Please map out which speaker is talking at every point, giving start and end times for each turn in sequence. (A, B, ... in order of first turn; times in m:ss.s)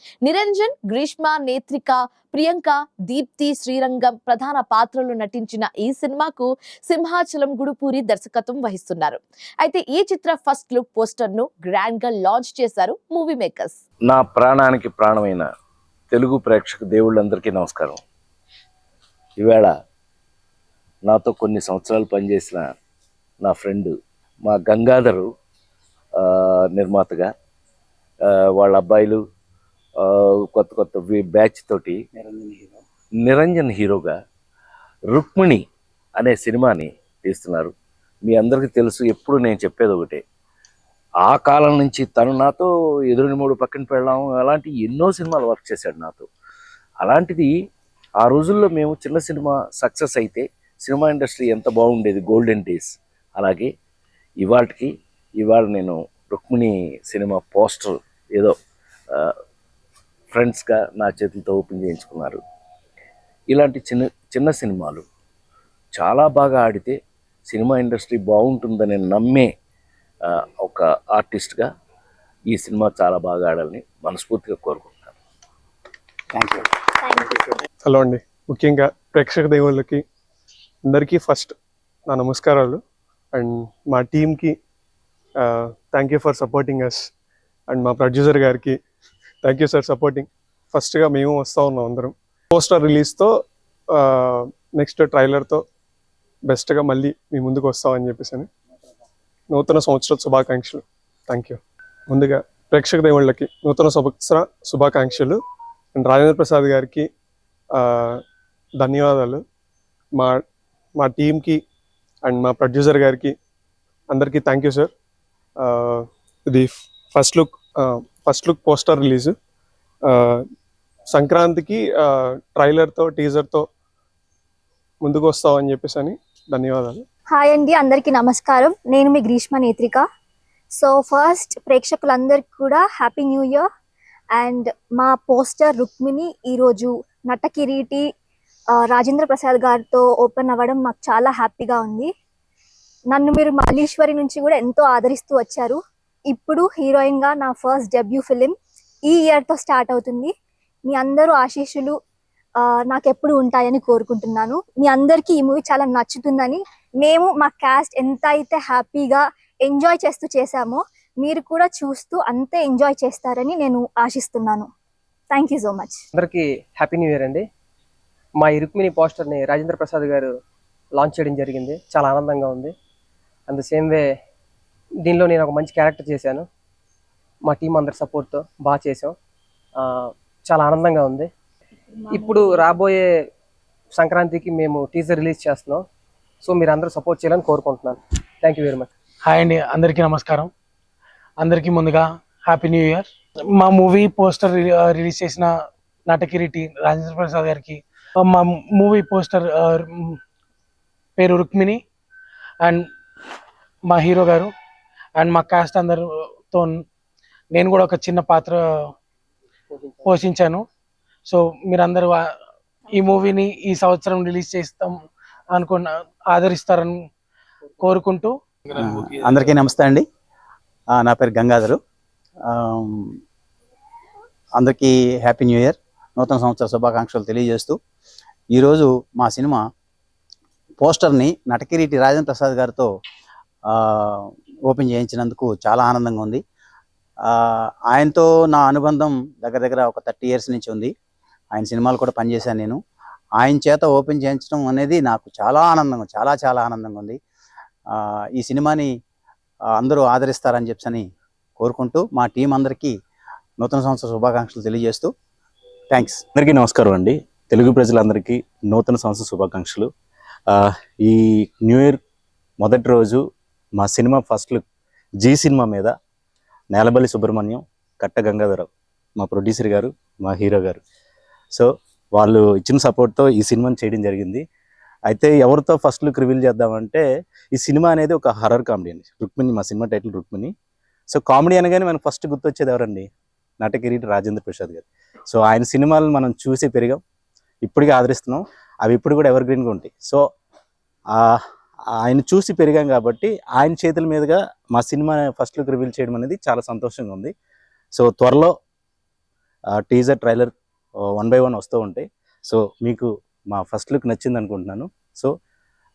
0:00.2-0:13.8 A
0:14.1-0:15.5 B
0:16.1-0:18.0 B
0:19.4-0:19.7 B
0:21.0-0:22.7 B
0:23.4-0:23.9 B
0:24.4-0:25.3 B
0:26.2-0:27.3 B
0:28.3-0:29.2 B
0:30.0-0:32.0 B
0:32.2-0:32.7 C
0:33.2-0:34.1 B
0:35.1-0:35.6 B
0:36.2-0:37.7 B
0:38.2-0:40.2 B
0:41.2-0:46.3 B
0:47.0-0:47.5 B
0:48.2-0:53.7 B
0:54.4-0:58.5 B
1:00.3-1:02.4 B
1:03.5-1:05.0 B
1:06.0-1:06.9 B
1:07.5-1:09.5 B
1:10.6-1:11.7 B
1:12.5-1:15.1 B
1:16.3-1:16.7 C
1:17.8-1:20.0 D
1:20.8-1:21.5 D
1:22.1-1:22.8 D
1:23.3-1:24.6 D
1:25.4-1:27.1 D
1:27.7-1:28.8 D
1:29.4-1:33.3 D
1:33.9-1:35.6 D
1:36.5-1:38.5 D
1:39.5-1:45.4 D
1:45.9-1:47.1 D
1:47.7-1:48.2 D
1:48.8-1:49.4 D
1:50.2-1:50.4 D
1:51.0-1:51.6 D
1:52.2-1:53.3 D
1:54.1-1:54.9 D
1:55.6-1:59.3 D
2:00.1-2:00.4 D
2:01.1-2:03.7 D
2:05.0-2:07.0 D
2:07.3-2:10.0 E
2:10.7-2:13.6 E
2:14.3-2:18.0 E
2:18.8-2:22.1 E
2:23.1-2:28.5 E
2:29.1-2:30.3 E
2:30.9-2:31.9 E
2:32.6-2:44.7 E
2:45.3-2:46.0 E
2:46.1-2:47.4 F
2:48.4-2:50.3 F
2:50.9-2:52.7 F
2:53.5-2:54.0 F
2:55.0-2:56.5 F
2:57.4-2:59.2 F
2:59.8-3:01.3 F
3:02.1-3:03.1 F
3:03.9-3:05.8 F
3:06.4-3:08.9 F
3:09.2-3:10.5 G
3:11.4-3:15.5 G
3:16.1-3:20.2 G
3:21.2-3:21.8 G
3:22.6-3:22.9 G
3:23.9-3:24.5 G
3:25.2-3:26.8 G
3:27.5-3:28.9 G
3:29.7-3:30.1 F
3:30.0-3:30.6 G
3:31.3-3:32.3 G
3:32.9-3:37.0 G
3:37.8-3:38.3 G
3:38.8-3:40.0 C
3:40.9-3:41.8 C
3:42.4-3:43.1 C
3:44.6-3:47.8 C
3:48.5-3:49.6 C
3:50.8-3:52.9 C
3:53.7-3:56.4 C
3:57.3-4:00.9 C
4:01.5-4:02.8 C
4:03.4-4:07.2 C
4:07.9-4:08.9 C
4:09.7-4:11.0 C
4:11.6-4:12.9 C
4:13.6-4:15.1 C
4:15.9-4:16.2 C
4:16.3-4:19.9 H
4:20.5-4:22.0 H
4:22.6-4:23.2 H
4:23.8-4:24.6 H
4:25.2-4:25.9 H
4:26.7-4:30.8 H
4:31.5-4:34.4 H
4:35.1-4:40.5 H
4:41.1-4:43.1 H
4:43.6-4:47.0 H
4:47.6-4:50.2 H
4:51.1-4:51.4 H
4:52.0-4:57.3 H
4:57.9-4:58.5 H
4:59.8-5:00.5 H
5:01.2-5:05.3 H